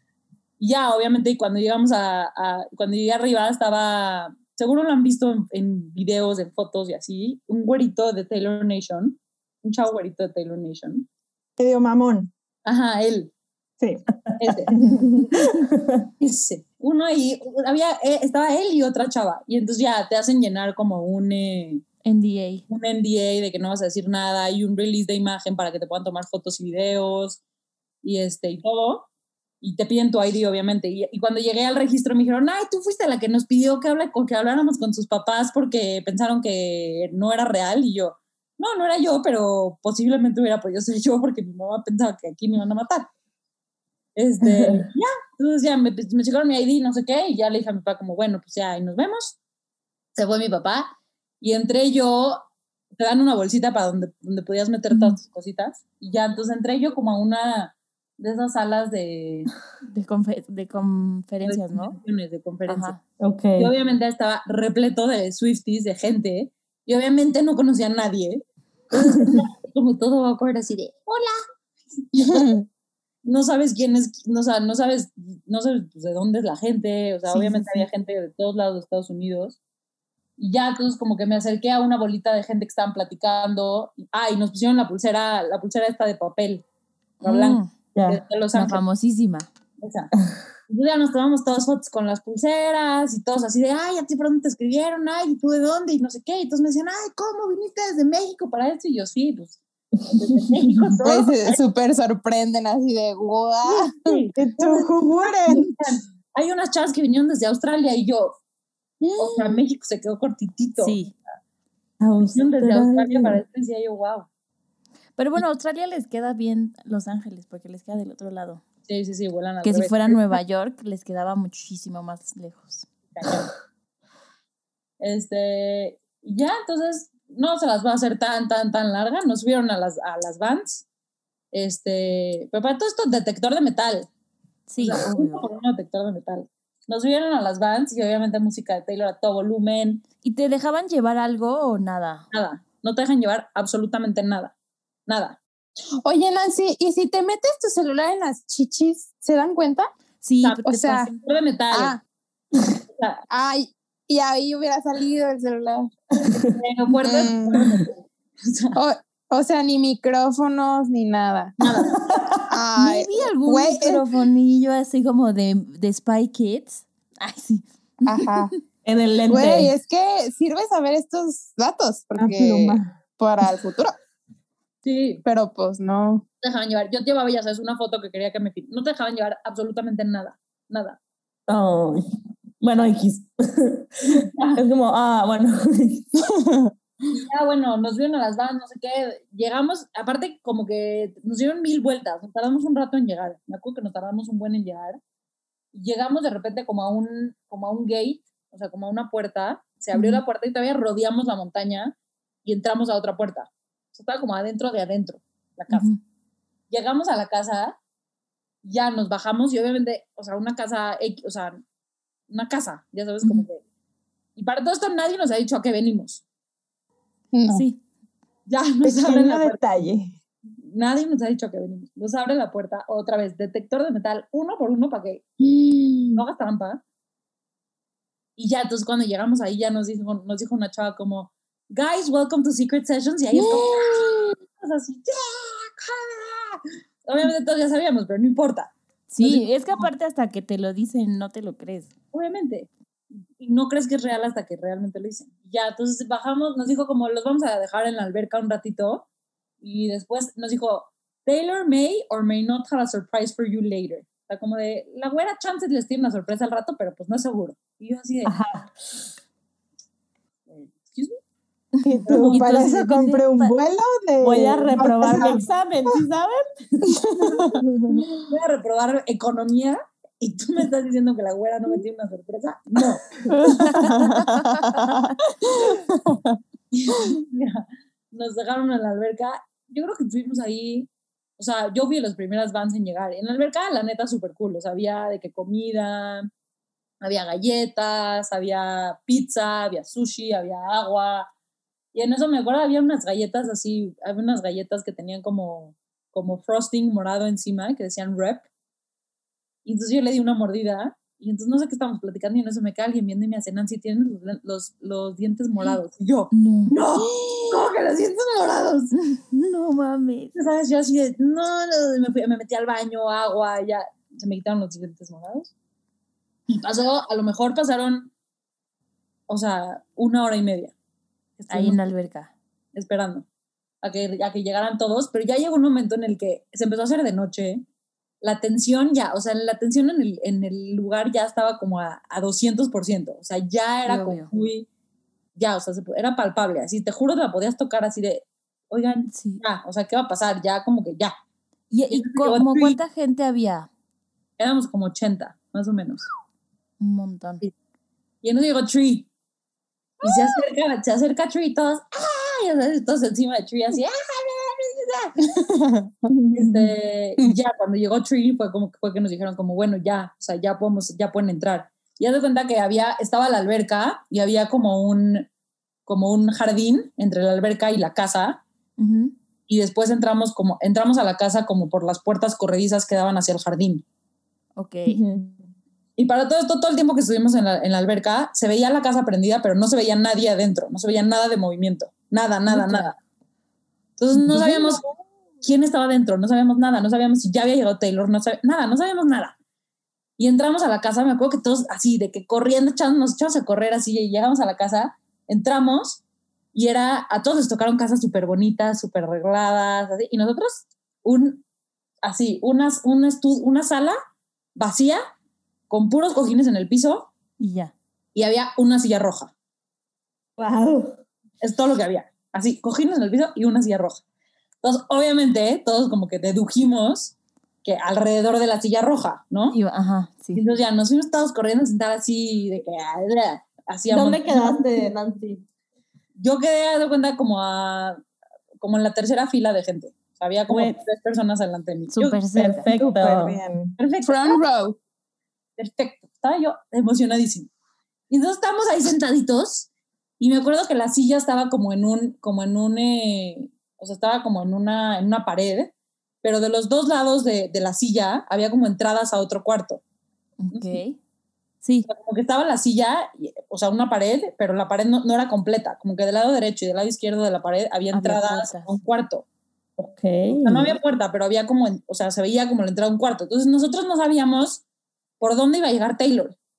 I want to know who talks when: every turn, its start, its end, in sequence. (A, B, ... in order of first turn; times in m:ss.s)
0:00.6-0:11.1 A
0:11.6-0:12.3 B
0:12.7-0:13.3 A
0:13.8-0:15.0 B
0:14.4-0:14.8 A
0:15.0-0:16.0 C
0:16.2-0:21.8 A
0:22.0-0:22.6 D
0:22.7-0:27.4 A
0:28.0-0:29.1 A
0:29.6-0:43.1 A
0:44.2-0:49.4 A
0:44.4-0:44.8 C
0:50.2-0:50.9 A
0:51.4-0:52.4 A
0:53.0-0:59.5 A
0:54.9-0:55.2 D
0:59.9-1:02.0 D
1:01.4-1:03.0 A
1:02.7-1:03.0 D
1:03.2-1:03.7 C
1:03.6-1:08.4 A
1:09.0-1:11.4 A
1:12.1-1:12.5 A
1:12.2-1:12.7 E
1:13.2-1:19.6 A
1:17.3-1:17.8 D
1:20.4-1:26.6 A
1:27.2-1:28.8 A
1:27.2-1:27.7 D
1:28.0-1:28.2 C
1:28.5-1:29.5 D
1:29.8-1:30.1 A
1:30.7-1:39.6 A
1:40.1-1:41.6 A
1:41.0-1:44.2 E
1:43.6-1:48.4 A
1:44.4-1:46.0 B
1:49.0-1:49.6 E
1:49.2-1:51.0 A
1:50.8-1:51.1 D
1:52.0-1:53.4 C
1:52.3-1:54.3 A
1:55.2-1:58.6 D
1:58.8-2:00.4 A
1:59.6-2:02.9 D
2:03.1-2:03.5 A
2:05.0-2:10.9 A
2:11.5-2:14.1 A
2:14.7-2:15.4 D
2:14.8-2:20.0 A
2:20.2-2:22.3 D
2:22.3-2:24.5 A
2:25.1-2:25.4 A
2:26.0-2:29.9 E
2:30.2-2:31.2 D
2:30.4-2:32.0 A
2:30.7-2:31.1 E
2:31.7-2:32.0 E
2:32.7-2:33.2 A
2:33.3-2:35.9 E
2:36.2-2:36.6 C
2:36.6-2:38.8 A
2:37.0-2:37.6 E
2:38.8-2:41.6 E
2:41.6-2:42.1 A
2:42.0-2:42.5 C
2:42.5-2:44.0 E
2:42.8-2:48.4 D
2:48.1-2:48.5 E
2:48.8-2:49.7 C
2:49.3-2:53.9 E
2:52.2-2:53.0 B
2:54.8-2:55.2 A
2:55.2-2:56.2 E
2:56.4-3:01.0 A
3:01.5-3:02.1 C
3:02.6-3:06.3 C
3:04.0-3:04.6 A
3:07.1-3:15.0 A
3:15.7-3:21.9 A
3:19.9-3:20.2 D
3:22.4-3:25.9 A
3:25.7-3:26.0 D
3:26.7-3:27.8 A
3:28.6-3:31.6 A
3:32.3-3:33.6 A
3:34.4-3:36.2 A
3:37.3-3:37.6 E
3:37.5-3:37.8 D
3:38.5-3:39.6 A
3:38.8-3:40.1 B
3:40.6-3:45.2 A
3:45.5-3:46.2 E
3:46.2-3:46.8 A
3:48.4-3:59.9 A
3:53.3-3:54.4 E
3:59.1-4:01.9 D
4:02.1-4:02.7 A
4:03.4-4:09.1 A
4:09.6-4:18.3 A
4:18.2-4:18.7 C
4:20.5-4:21.2 A
4:21.8-4:25.4 B
4:21.9-4:23.5 D
4:22.0-4:22.5 A
4:24.2-4:27.0 C
4:27.6-4:28.1 B
4:28.2-4:34.0 A
4:33.6-4:34.1 B
4:33.7-4:35.0 D
4:36.8-4:46.3 A
4:47.0-4:51.3 A
4:51.9-4:58.5 A
4:59.6-5:08.9 A
5:06.3-5:06.7 D
5:07.0-5:07.7 E
5:08.9-5:10.3 D
5:10.3-5:15.5 A
5:16.5-5:18.1 A
5:19.3-5:20.8 A
5:21.4-5:21.8 A
5:21.5-5:22.3 D
5:22.8-5:23.3 A
5:23.8-5:27.6 A
5:28.2-5:34.7 A
5:33.9-5:34.3 D
5:35.4-5:41.1 A
5:39.1-5:39.4 D
5:41.7-5:43.7 D
5:41.9-5:42.8 A
5:44.4-5:46.1 A
5:46.8-5:47.4 D
5:48.2-5:49.1 A
5:50.0-5:55.2 A
5:55.3-5:55.9 E
5:56.1-5:56.7 B
5:56.3-6:05.3 A
6:05.9-6:08.4 A
6:08.8-6:09.1 D
6:09.5-6:13.8 A
6:14.6-6:15.0 D
6:14.9-6:15.4 B
6:16.0-6:22.9 A
6:24.0-6:24.8 A
6:24.2-6:24.8 B
6:25.4-6:29.4 A
6:30.2-6:36.0 A
6:36.5-6:41.4 A
6:42.0-6:44.0 A
6:44.6-6:45.0 A
6:45.7-6:47.1 A
6:47.4-6:47.7 D
6:48.2-6:49.3 A
6:50.4-6:51.0 C
6:51.4-6:54.0 A
6:54.6-6:59.6 A
6:59.5-7:00.4 D
7:00.3-7:04.6 A
7:03.9-7:05.5 C
7:06.2-7:08.0 A
7:08.6-7:12.2 A
7:10.5-7:10.8 C
7:11.9-7:12.7 D
7:12.4-7:13.4 C
7:12.8-7:13.7 B
7:13.8-7:14.4 A
7:14.0-7:14.8 E
7:15.6-7:17.5 A
7:18.1-7:19.7 A
7:20.2-7:29.8 A
7:30.4-7:31.0 D
7:30.5-7:30.8 A
7:31.6-7:31.9 D
7:31.9-7:39.2 A
7:37.9-7:38.8 D
7:39.8-7:40.8 C
7:40.4-7:44.6 A
7:45.2-7:46.4 A